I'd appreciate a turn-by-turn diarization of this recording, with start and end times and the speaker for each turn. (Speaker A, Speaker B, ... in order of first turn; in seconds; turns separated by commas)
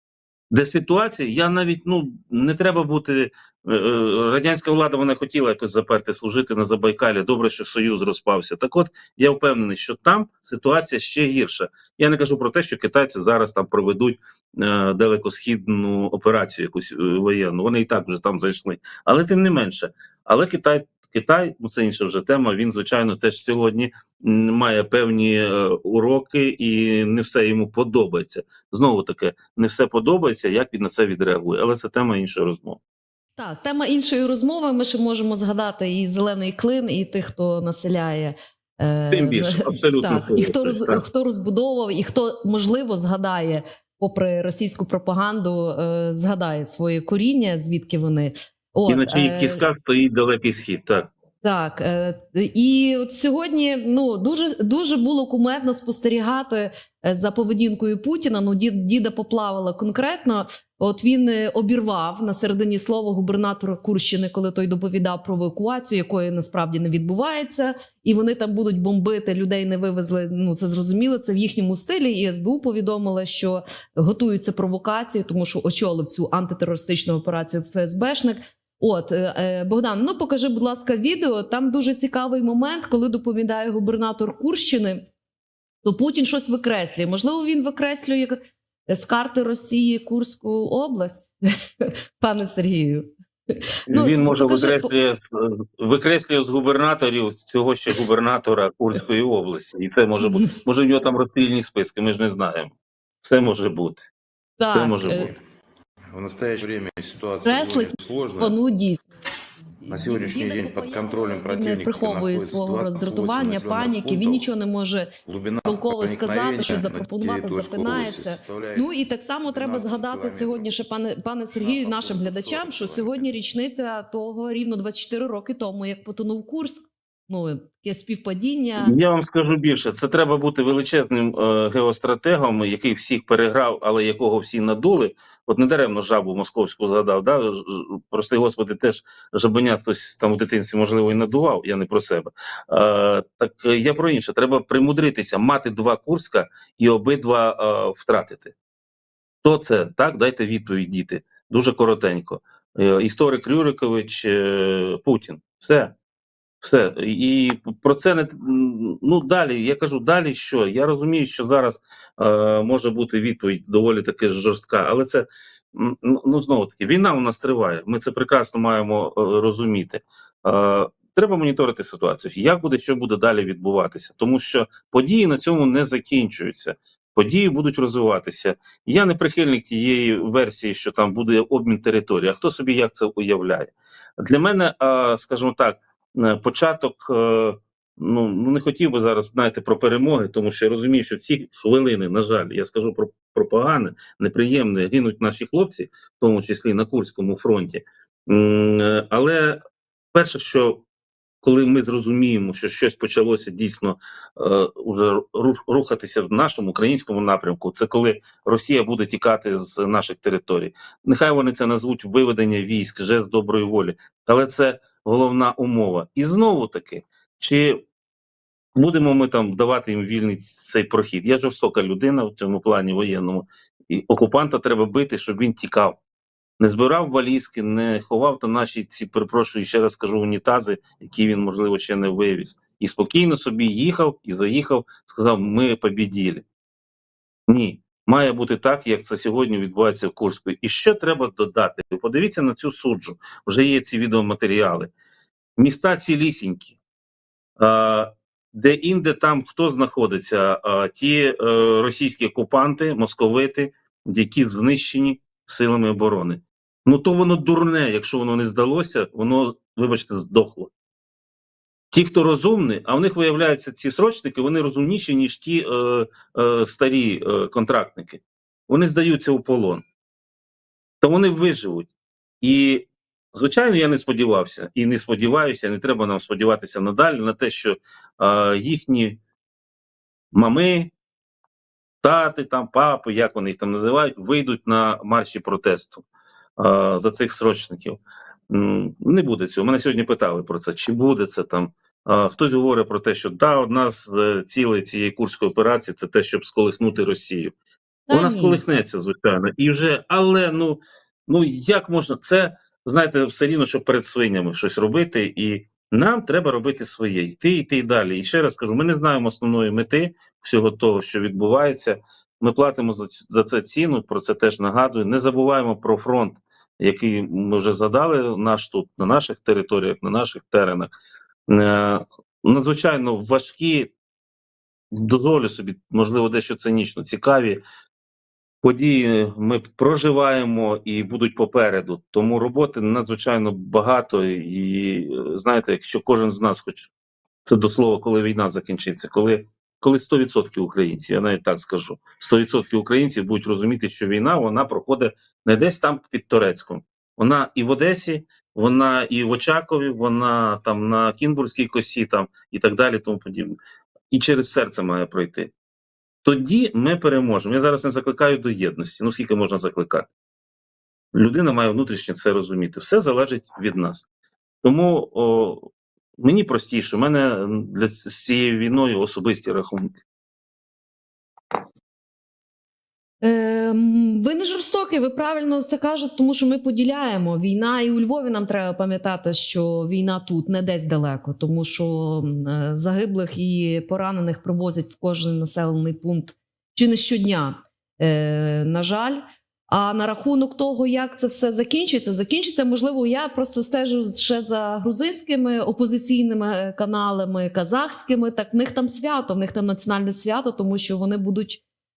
Speaker A: 0.5-32.8, Speaker B: 33.4-49.6, Speaker A: 39.1-41.0, Speaker A: 48.9-51.1, Speaker B: 51.4-85.0, Speaker B: 85.8-94.9, Speaker A: 93.9-104.1, Speaker B: 104.6-105.3, Speaker A: 104.7-105.3, Speaker C: 106.1-108.5, Speaker B: 107.4-109.1, Speaker B: 109.8-115.1, Speaker C: 109.9-114.5, Speaker C: 115.2-118.9, Speaker B: 115.6-128.9, Speaker C: 119.5-120.7, Speaker C: 121.5-123.3, Speaker A: 128.8-148.5, Speaker A: 149.4-155.9, Speaker A: 156.6-199.6, Speaker A: 200.1-200.8, Speaker A: 201.4-217.8, Speaker A: 218.7-226.0, Speaker A: 226.6-236.4, Speaker A: 237.5-244.9, Speaker A: 245.6-246.8, Speaker A: 247.6-260.7, Speaker A: 261.9-269.8, Speaker A: 271.0-271.9, Speaker A: 272.4-279.2, Speaker A: 280.3-280.9, Speaker A: 282.0-286.0, Speaker A: 286.6-297.5, Speaker B: 298.1-298.6, Speaker A: 298.1-320.9, Speaker A: 321.5-323.9, Speaker A: 324.9-327.6, Speaker A: 328.6-336.9, Speaker A: 337.4-353.6, Speaker A: 354.1-355.5, Speaker A: 356.2-360.1, Speaker A: 361.1-364.1, Speaker A: 364.6-365.6, Speaker A: 366.2-369.9, Speaker B: 373.2-401.6